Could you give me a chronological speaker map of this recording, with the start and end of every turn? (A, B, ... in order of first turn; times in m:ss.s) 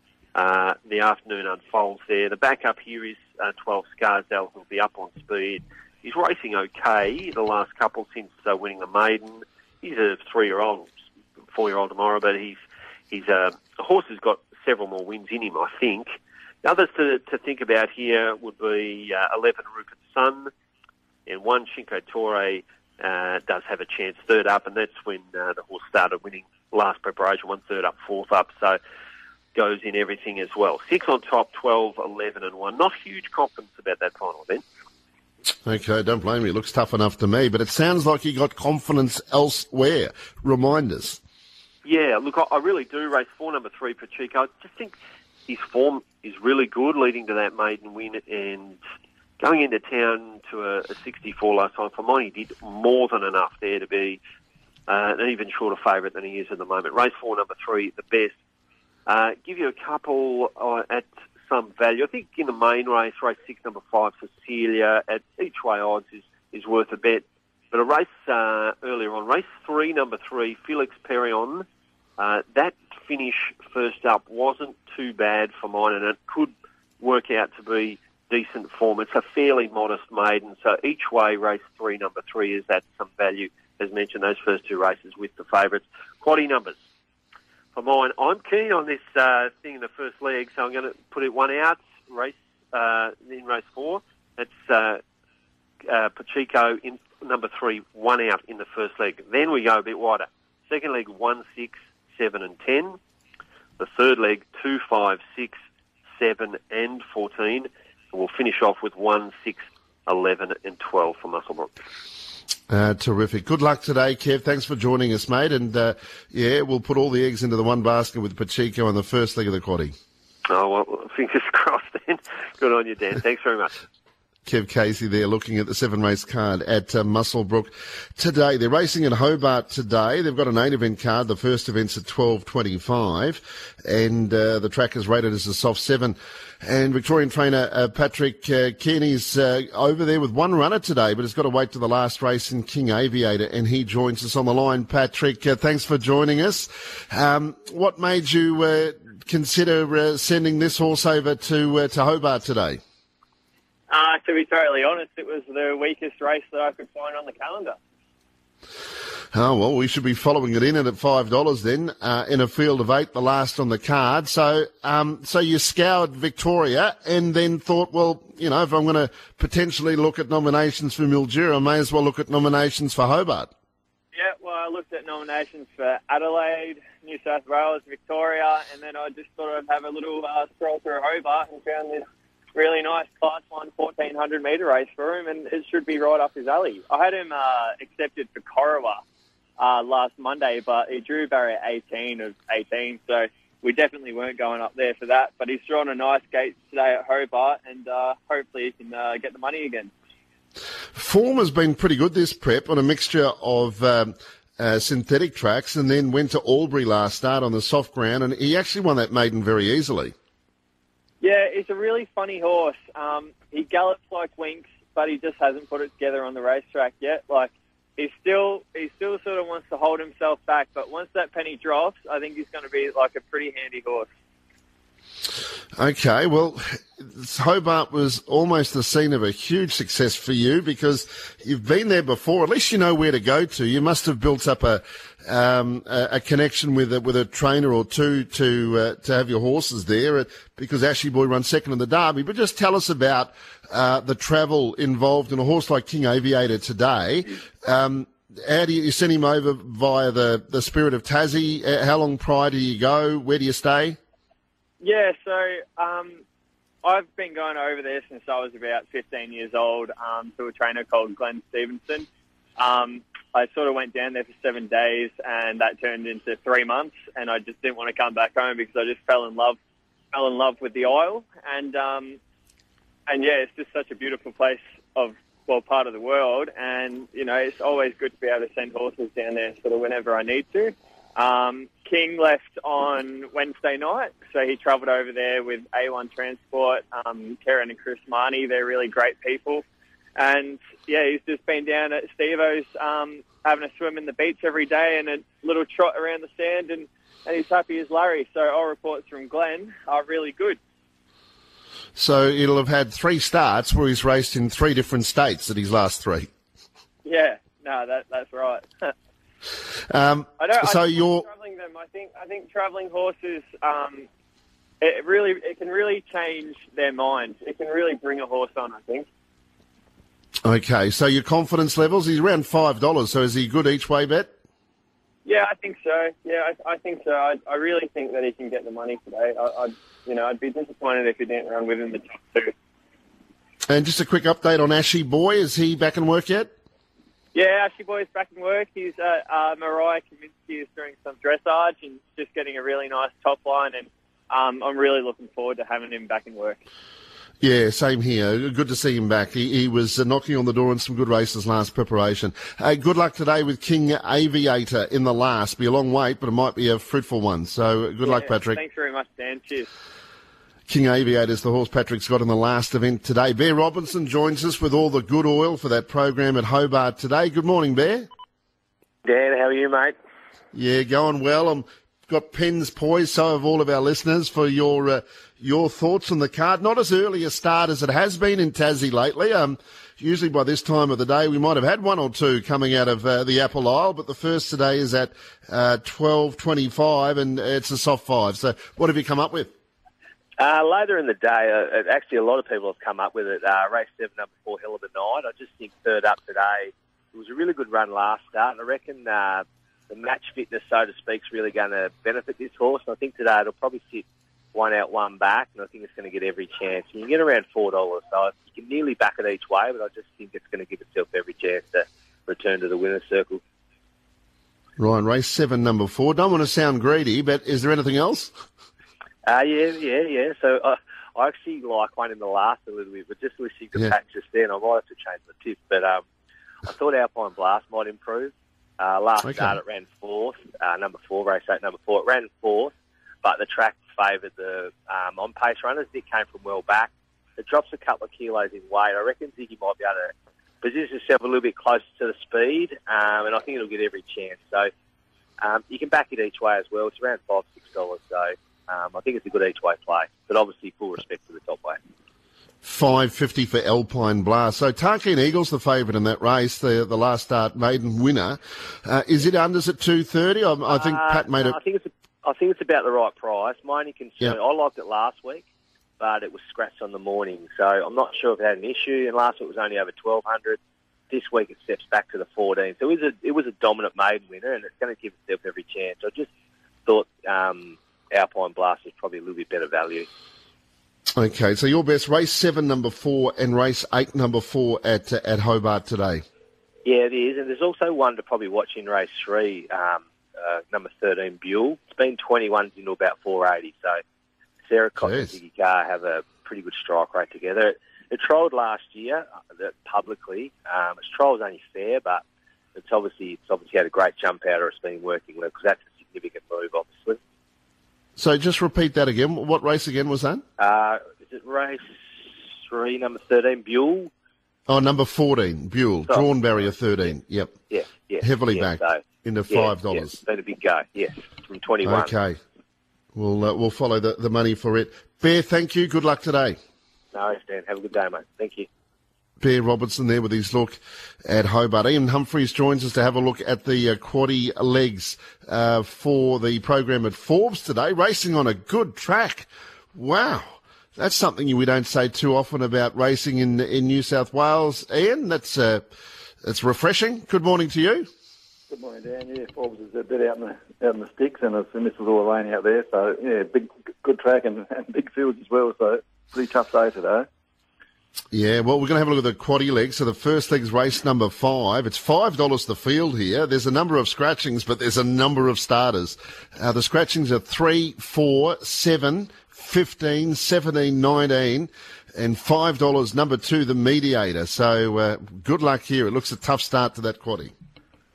0:00.3-0:10.9 A
0:11.5-0:12.6 A
0:13.1-0:16.1 A
0:16.6-0:20.5 A
0:21.2-0:28.8 A
0:29.5-0:34.6 A
0:35.6-0:41.2 B
0:41.8-0:44.9 A
0:45.5-0:48.8 A
0:49.4-0:54.2 A
0:54.9-0:58.3 A
0:59.1-1:11.6 A
1:12.2-1:26.8 A
1:27.7-1:35.0 A
1:35.8-1:43.0 A
1:43.8-1:45.6 A
1:46.1-1:51.7 A
1:52.7-1:59.9 B
2:00.5-2:03.7 A
2:04.4-2:32.8 B
2:33.9-2:37.8 C
2:39.3-2:53.5 B
2:54.1-3:09.0 C
3:09.6-3:19.9 C
3:20.9-3:30.1 B
3:31.2-3:44.1 C
3:45.8-4:14.0 B
4:14.8-4:16.2 C
4:16.8-4:22.1 C
4:22.6-4:29.6 C
4:30.1-4:32.2 C
4:33.1-4:49.6 C
4:50.2-5:00.6 C
5:02.0-5:06.3 B
5:07.0-5:08.9 C
5:09.9-5:11.2 B
5:10.4-5:14.1 C
5:14.8-5:19.1 C
5:20.4-5:24.3 B
5:25.2-5:32.5 C
5:33.7-5:36.5 B
5:37.3-5:46.6 C
5:47.4-5:58.6 B
5:58.0-5:59.7 C
6:00.7-6:08.1 B
6:09.0-6:09.9 D
6:10.5-6:29.5 B
6:30.4-6:53.4 D
6:54.8-6:58.3 B
6:59.2-7:06.0 D
7:06.6-7:24.7 D
7:09.2-7:09.6 B
7:25.4-7:31.8 D
7:32.6-7:41.6 B
7:40.7-7:45.4 D
7:46.0-7:50.6 D
7:51.1-7:56.3 D
7:56.8-8:00.1 D
8:01.2-8:06.2 B
8:06.8-8:14.0 D
8:14.6-8:22.2 D
8:15.0-8:15.3 B
8:22.8-8:27.2 D
8:28.2-8:30.4 B
8:30.6-8:34.1 D
8:34.7-8:37.6 B
8:37.7-8:42.1 D
8:38.2-8:40.2 B
8:41.8-8:42.4 B
8:43.1-8:46.6 B
8:47.1-8:48.7 D
8:49.4-9:05.8 B
9:06.4-9:08.1 B
9:08.7-9:17.3 E
9:18.3-9:37.5 B